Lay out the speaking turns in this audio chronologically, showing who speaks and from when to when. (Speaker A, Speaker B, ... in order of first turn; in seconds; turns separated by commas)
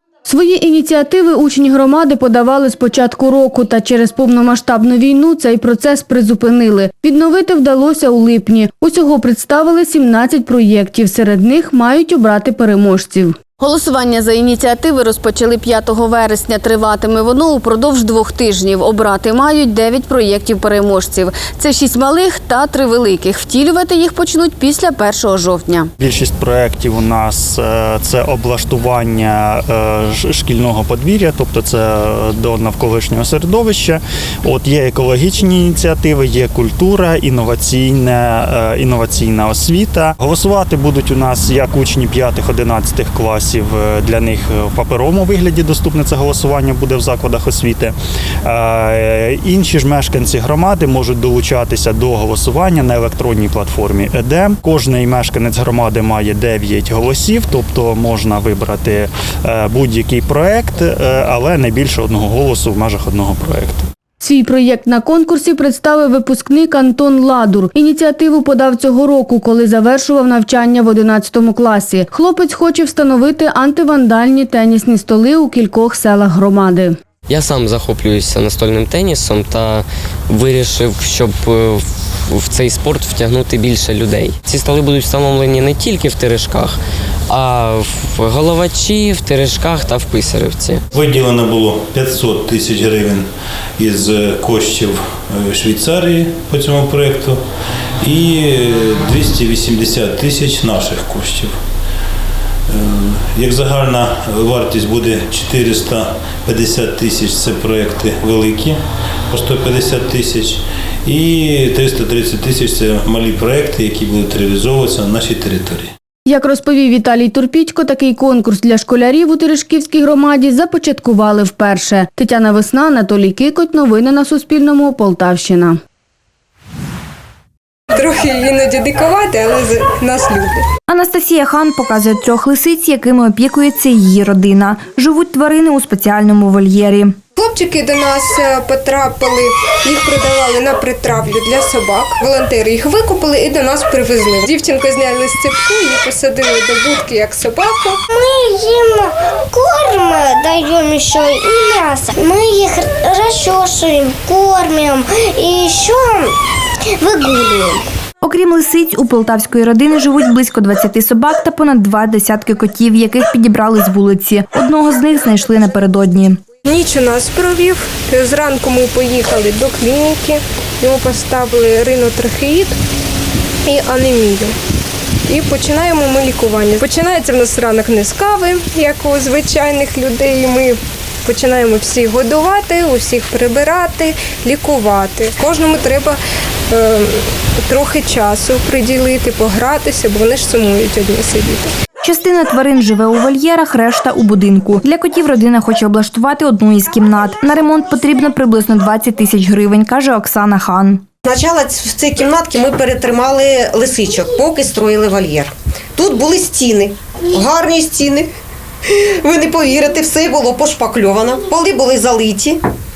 Speaker A: 0.2-25.9, Speaker B: 26.0-47.9, Speaker B: 48.5-63.9, Speaker A: 64.2-76.9, Speaker C: 77.3-86.7, Speaker D: 77.8-78.2, Speaker C: 87.3-90.8, Speaker E: 90.9-97.4, Speaker E: 98.0-101.5, Speaker E: 102.7-108.8, Speaker E: 109.3-115.9, Speaker A: 116.2-125.8, Speaker F: 127.9-130.6, Speaker G: 130.9-137.2, Speaker F: 137.3-147.9, Speaker D: 148.2-156.3, Speaker D: 157.0-157.8, Speaker G: 158.2-166.4, Speaker F: 166.6-172.7, Speaker F: 173.7-174.5, Speaker F: 175.3-186.2, Speaker F: 186.7-187.1, Speaker F: 187.7-191.7, Speaker G: 192.0-201.0, Speaker H: 201.2-208.3, Speaker H: 209.0-212.6